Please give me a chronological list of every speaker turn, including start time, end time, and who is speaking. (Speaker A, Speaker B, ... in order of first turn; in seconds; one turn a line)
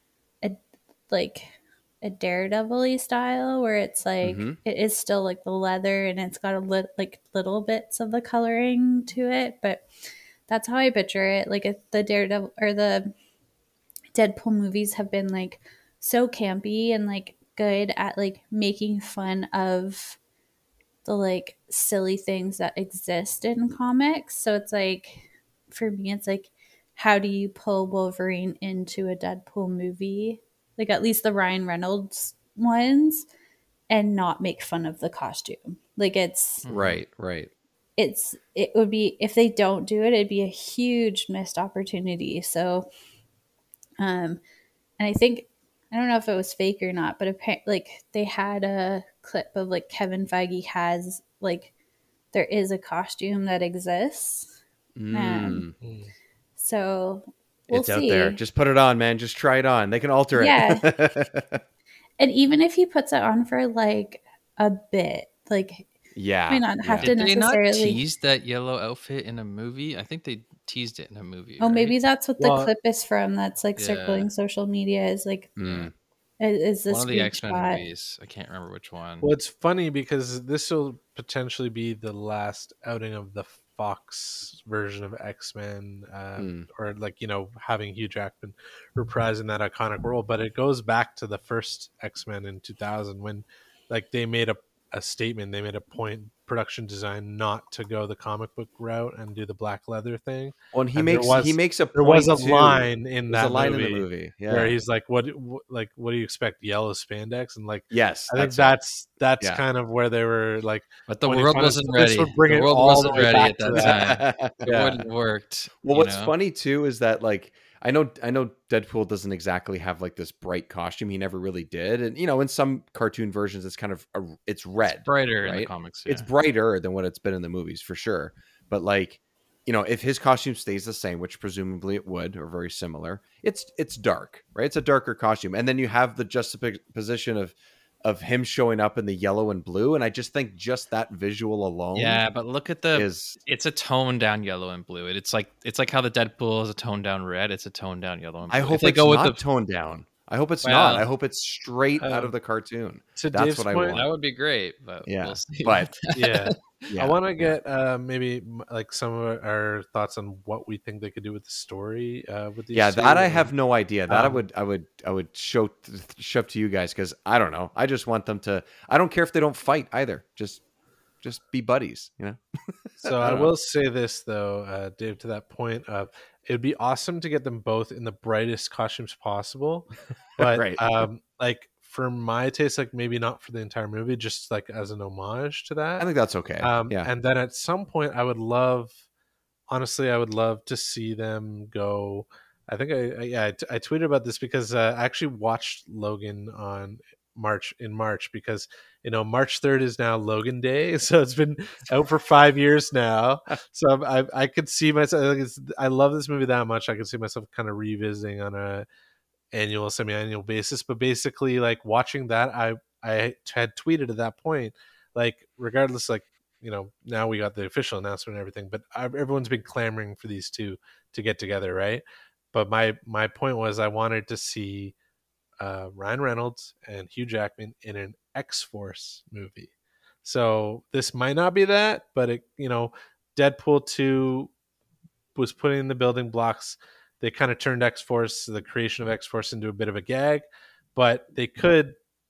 Speaker A: 0.4-9.8
Speaker B: 4.2-4.6
Speaker A: 10.5-13.1
Speaker A: 14.1-20.2
Speaker A: 21.1-33.3
Speaker A: 33.9-36.6
Speaker C: 36.6-37.0
Speaker B: 36.7-37.5
Speaker A: 38.0-42.9
Speaker A: 44.0-44.4
Speaker A: 45.0-51.7
Speaker A: 52.3-54.5
Speaker B: 55.0-55.8
Speaker A: 55.1-55.7
Speaker D: 55.8-56.1
Speaker A: 56.6-58.4
Speaker B: 57.7-61.6
Speaker A: 60.4-60.9
Speaker A: 62.2-65.9
Speaker B: 66.1-67.1
Speaker A: 66.5-68.0
Speaker C: 67.0-72.0
Speaker A: 71.6-75.5
Speaker D: 72.4-72.7
Speaker C: 73.8-74.3
Speaker B: 75.6-75.9
Speaker C: 75.6-75.9
Speaker A: 76.4-77.8
Speaker C: 76.9-79.3
Speaker D: 79.2-114.2
Speaker B: 86.4-86.7
Speaker B: 100.7-104.7
Speaker B: 107.9-108.8
Speaker C: 111.1-116.3
Speaker B: 113.8-115.0
Speaker B: 115.8-142.2
Speaker C: 125.0-126.3
Speaker C: 141.9-149.4
Speaker B: 142.9-143.4
Speaker B: 148.5-154.1
Speaker C: 150.6-151.1
Speaker D: 152.0-152.3
Speaker D: 153.2-154.0
Speaker C: 153.9-156.5
Speaker B: 155.1-155.9
Speaker D: 156.2-163.5
Speaker B: 156.9-157.6
Speaker B: 162.7-170.6
Speaker D: 164.1-164.4
Speaker B: 171.2-173.5
Speaker D: 173.0-186.1
Speaker B: 180.4-181.0
Speaker B: 186.0-187.1
Speaker D: 186.6-189.0
Speaker D: 189.7-208.9
Speaker D: 209.5-224.9
Speaker D: 225.6-229.7
Speaker D: 230.2-234.5
Speaker D: 235.3-242.0